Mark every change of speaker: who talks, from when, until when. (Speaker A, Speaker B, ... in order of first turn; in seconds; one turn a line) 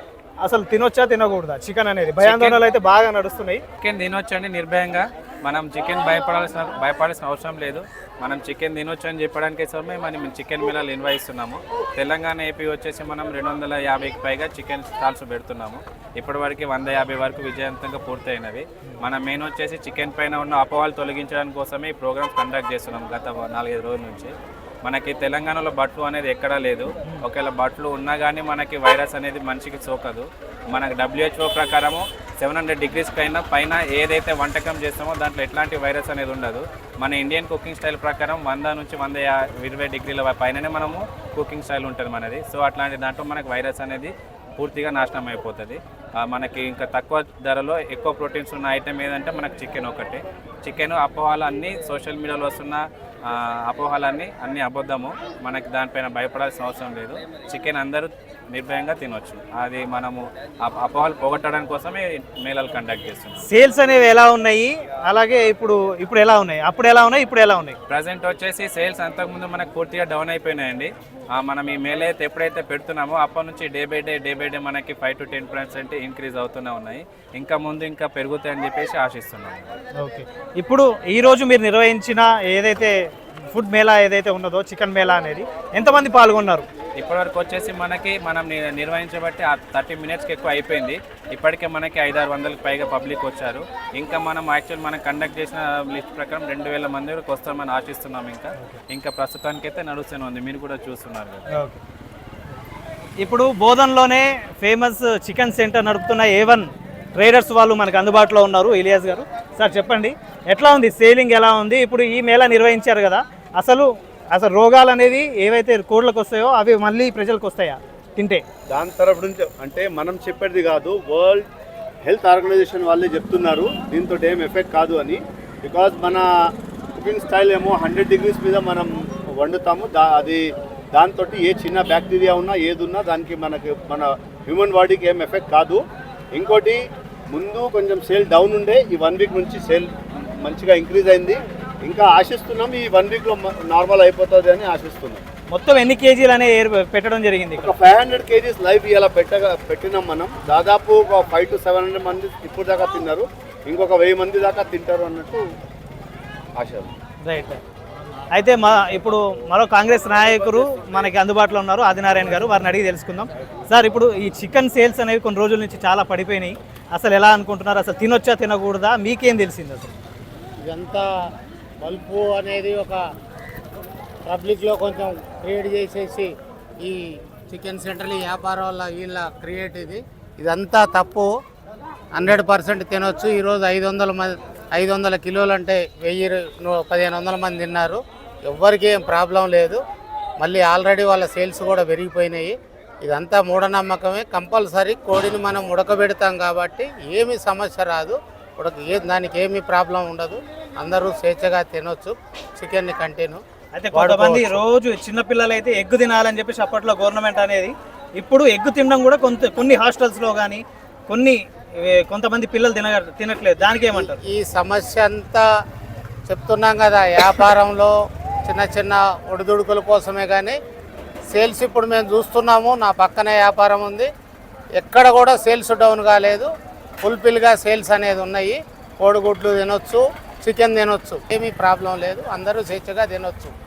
Speaker A: 0.4-3.6
Speaker B: 2.2-2.6
Speaker B: 3.8-24.3
Speaker B: 24.8-63.4
Speaker A: 63.4-67.8
Speaker B: 67.9-79.8
Speaker A: 80.0-82.9
Speaker A: 83.5-86.7
Speaker B: 87.0-101.5
Speaker A: 101.5-101.8
Speaker A: 103.2-118.4
Speaker C: 118.7-121.5
Speaker C: 122.0-126.2
Speaker C: 127.0-130.4
Speaker C: 130.9-135.8
Speaker C: 136.3-136.8
Speaker C: 137.3-145.2
Speaker A: 145.5-147.8
Speaker C: 147.6-155.4
Speaker C: 156.6-156.9
Speaker A: 157.2-157.6
Speaker A: 158.3-169.9
Speaker D: 170.6-171.1
Speaker D: 171.8-173.0
Speaker D: 174.3-181.3
Speaker D: 182.1-189.8
Speaker D: 190.4-203.4
Speaker A: 203.8-214.2
Speaker C: 203.9-204.6
Speaker D: 213.9-215.4
Speaker D: 216.3-217.9
Speaker D: 218.4-220.6
Speaker D: 221.3-224.1
Speaker D: 224.8-226.5
Speaker D: 227.0-233.5